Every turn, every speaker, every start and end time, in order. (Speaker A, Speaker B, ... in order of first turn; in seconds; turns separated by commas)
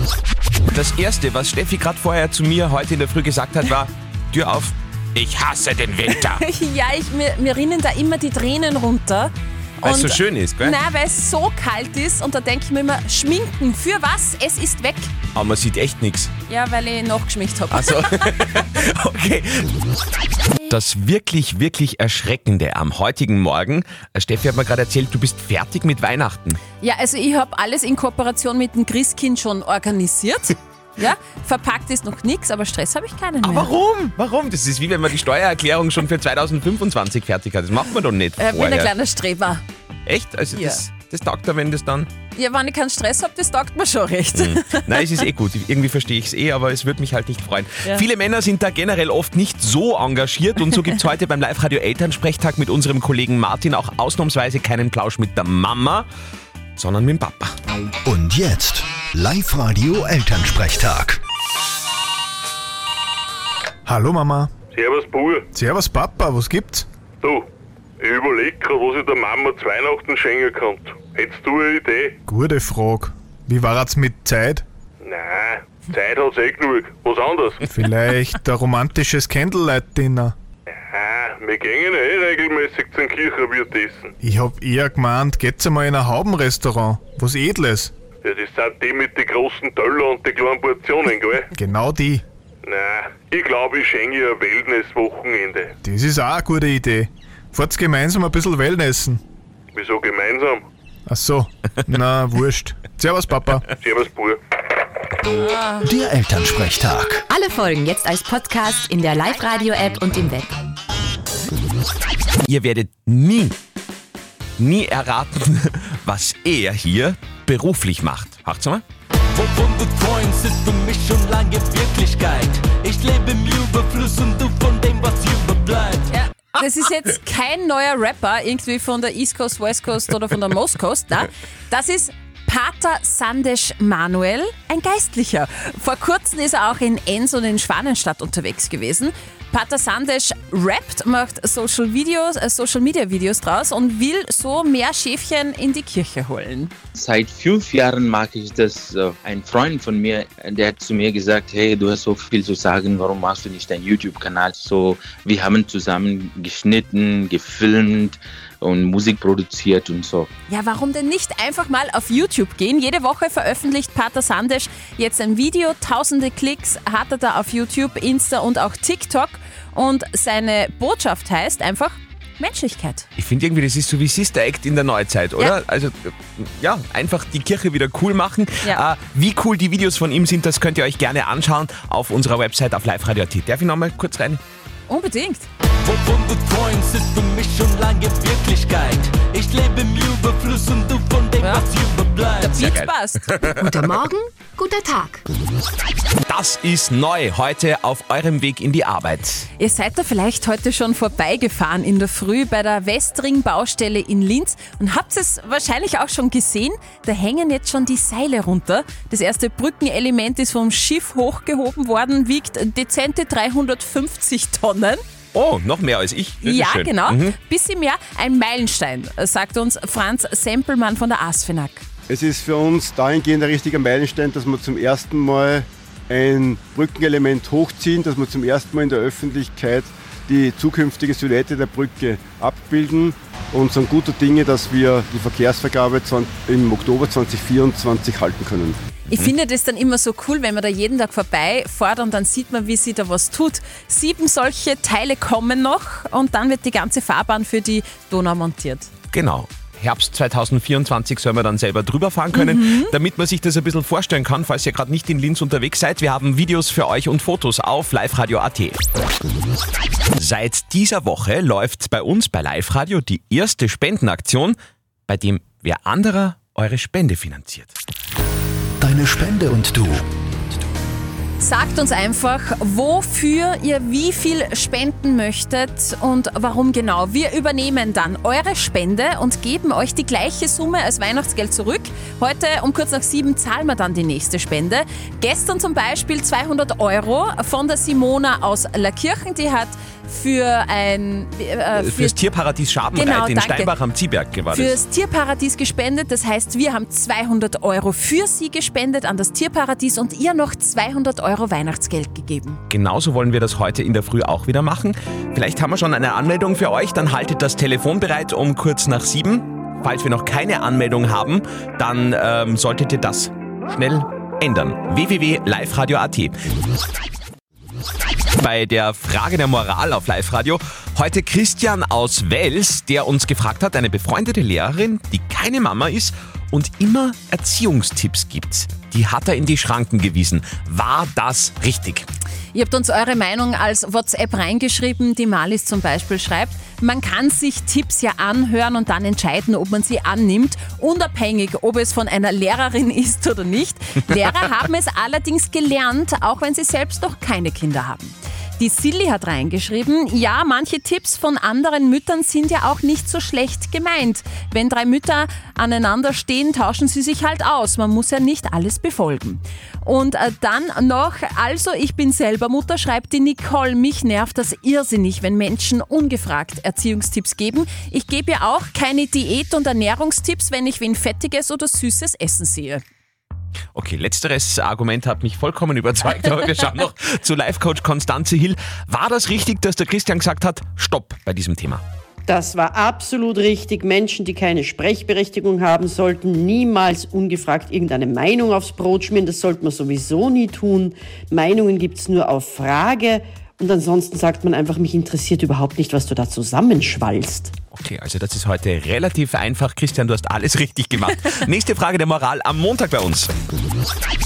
Speaker A: 0.7-6.4, Speaker B: 6.2-15.1, Speaker A: 9.8-10.8, Speaker A: 15.3-16.3, Speaker B: 16.5-18.2, Speaker A: 17.7-19.7, Speaker A: 20.7-26.6, Speaker B: 26.8-33.7, Speaker A: 33.4-38.9, Speaker B: 38.4-39.6, Speaker A: 40.0-42.1, Speaker B: 40.5-40.8, Speaker B: 42.3-45.2, Speaker A: 44.3-56.0, Speaker A: 56.8-57.5, Speaker C: 58.0-61.2, Speaker D: 63.9-64.5, Speaker E: 64.7-65.5, Speaker D: 65.5-66.8, Speaker E: 67.2-67.5, Speaker E: 68.0-72.2, Speaker D: 72.2-74.6, Speaker E: 75.0-77.6, Speaker D: 77.6-80.3, Speaker E: 80.7-84.1, Speaker D: 84.2-87.9, Speaker E: 88.2-91.5, Speaker D: 91.5-92.2, Speaker E: 92.6-95.7, Speaker D: 95.8-99.2, Speaker E: 99.7-100.6, Speaker D: 101.1-103.7, Speaker E: 103.8-104.4, Speaker B: 105.3-105.8, Speaker C: 105.8-107.2, Speaker F: 107.3-110.5, Speaker A: 112.5-113.5, Speaker A: 114.6-118.8, Speaker G: 119.4-125.8, Speaker B: 126.1-146.7, Speaker H: 146.9-160.3, Speaker B: 160.5-173.1, Speaker A: 173.2-184.4, Speaker B: 184.9-185.4, Speaker G: 185.9-191.3, Speaker B: 191.4-191.7, Speaker E: 191.6-191.9, Speaker B: 192.3-193.5, Speaker A: 192.5-194.0, Speaker F: 193.6-195.2, Speaker A: 196.2-199.4, Speaker B: 199.6-215.0, Speaker A: 215.3-217.3, Speaker B: 216.4-221.8, Speaker I: 222.1-238.8, Speaker B: 239.1-248.9, Speaker A: 249.1-258.8, Speaker B: 252.3-252.9, Speaker A: 260.2-264.6, Speaker A: 265.1-267.7, Speaker C: 268.8-270.1, Speaker B: 271.4-292.2, Speaker A: 291.7-294.8, Speaker B: 292.9-293.7, Speaker B: 294.5-302.6, Speaker A: 302.7-316.3, Speaker A: 318.4-332.1, Speaker B: 332.5-372.8, Speaker A: 373.7-381.8, Speaker J: 382.3-397.5, Speaker A: 397.7-403.3